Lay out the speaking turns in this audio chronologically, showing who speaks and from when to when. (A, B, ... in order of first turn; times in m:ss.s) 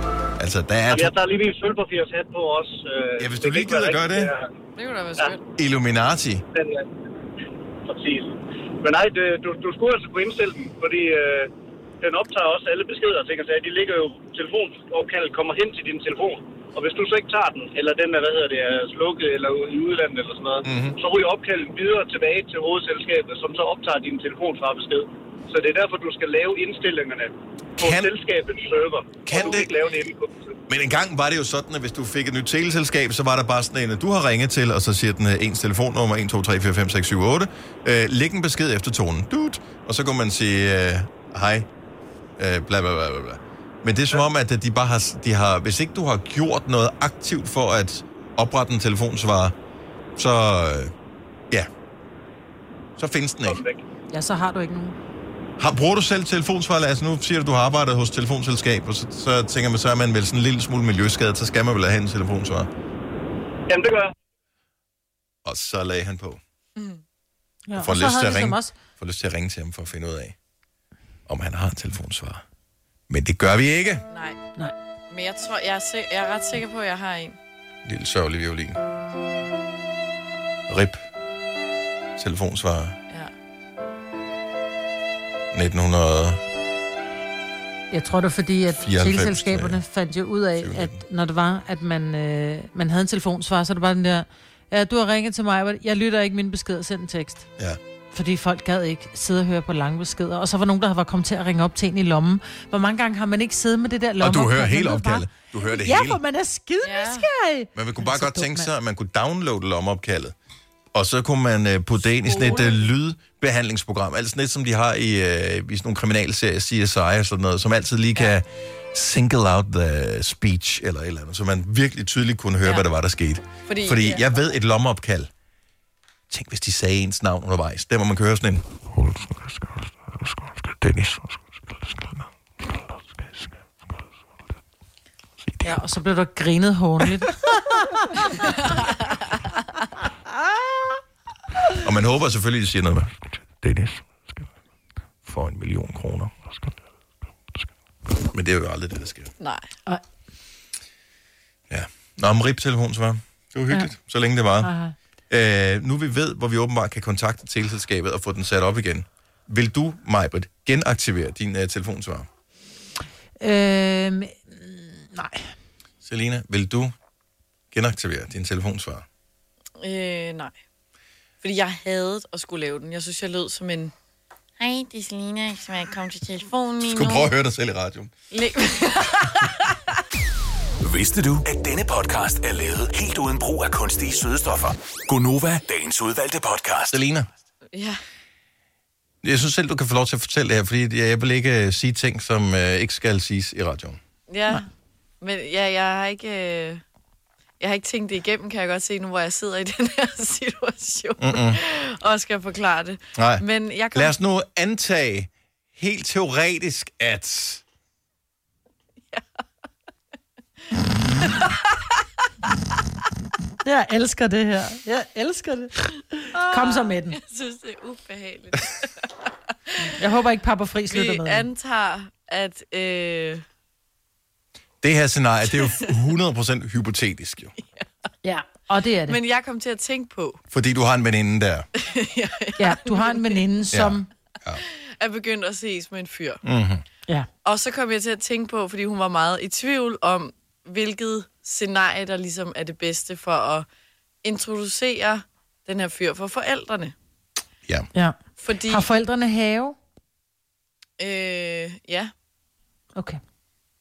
0:00.4-0:01.1 A
0:00.9-0:04.5 B
0:03.2-0:04.3 A
0:04.8-0:05.4 C
0:05.6-0:06.4 A
0:06.5-0:06.9 B
0:07.9-0:30.6 B
0:20.6-0:21.0 A
0:27.8-0:28.1 A
0:29.3-0:29.9 A
0:30.7-0:41.7 A
0:42.4-0:49.5 A
0:50.2-0:50.9 A
0:53.0-0:53.6 A
0:53.4-0:53.8 B
0:54.1-0:55.0 D
0:55.6-1:02.7 A
1:03.7-1:04.1 B
1:05.4-1:06.4 A
1:06.8-1:07.0 C
1:07.7-1:08.7 D
1:07.8-1:10.4 A
1:11.3-1:12.4 A
1:13.1-1:14.1 A
1:14.1-1:14.4 C
1:15.1-1:17.4 C
1:17.8-1:18.8 A
1:20.7-1:21.0 A
1:22.2-1:23.0 A
1:25.5-1:26.4 A
1:27.9-1:37.5 D
1:28.8-1:29.8 A
1:30.6-1:31.0 A
1:38.1-1:48.7 D
1:44.2-1:46.2 A
1:46.8-1:47.3 C
1:47.8-1:50.4 A
1:50.9-2:05.3 A
2:03.7-2:04.3 C
2:06.3-2:12.2 A
2:15.6-2:18.1 D
2:21.8-2:24.5 A
2:25.2-2:26.7 A
2:28.2-2:29.3 A
2:29.4-2:29.7 C
2:31.7-2:34.7 A
2:34.6-2:34.9 D
2:35.3-2:42.3 A
2:43.4-2:45.4 D
2:46.0-2:46.9 A
2:47.7-2:49.0 A
2:49.8-2:50.5 C
2:51.4-2:53.9 C
2:54.6-2:57.3 C
2:56.8-2:58.1 A
2:58.3-2:59.7 C
3:00.8-3:07.0 E
3:06.9-3:07.3 A
3:07.7-3:08.0 C
3:09.2-3:14.0 A
3:14.3-3:14.7 C
3:15.2-3:16.8 C
3:17.6-3:24.1 C
3:21.2-3:21.6 A
3:23.2-3:27.6 A
3:31.2-3:31.8 C
3:33.6-3:37.2 D
3:36.3-3:39.9 C
3:40.0-3:41.5 D
3:40.9-3:43.4 C
3:44.8-3:47.5 A
3:47.6-3:47.9 C
3:48.2-3:49.2 D
3:49.1-3:50.4 C
3:50.5-3:51.7 A
3:51.8-3:53.4 C
3:52.6-3:54.1 D
3:53.7-3:54.6 A
3:55.0-3:56.4 C
3:56.4-3:56.8 A
3:57.4-4:03.7 C
4:04.2-4:06.9 C
4:08.0-4:09.8 D
4:08.4-4:08.8 C
4:11.0-4:12.1 C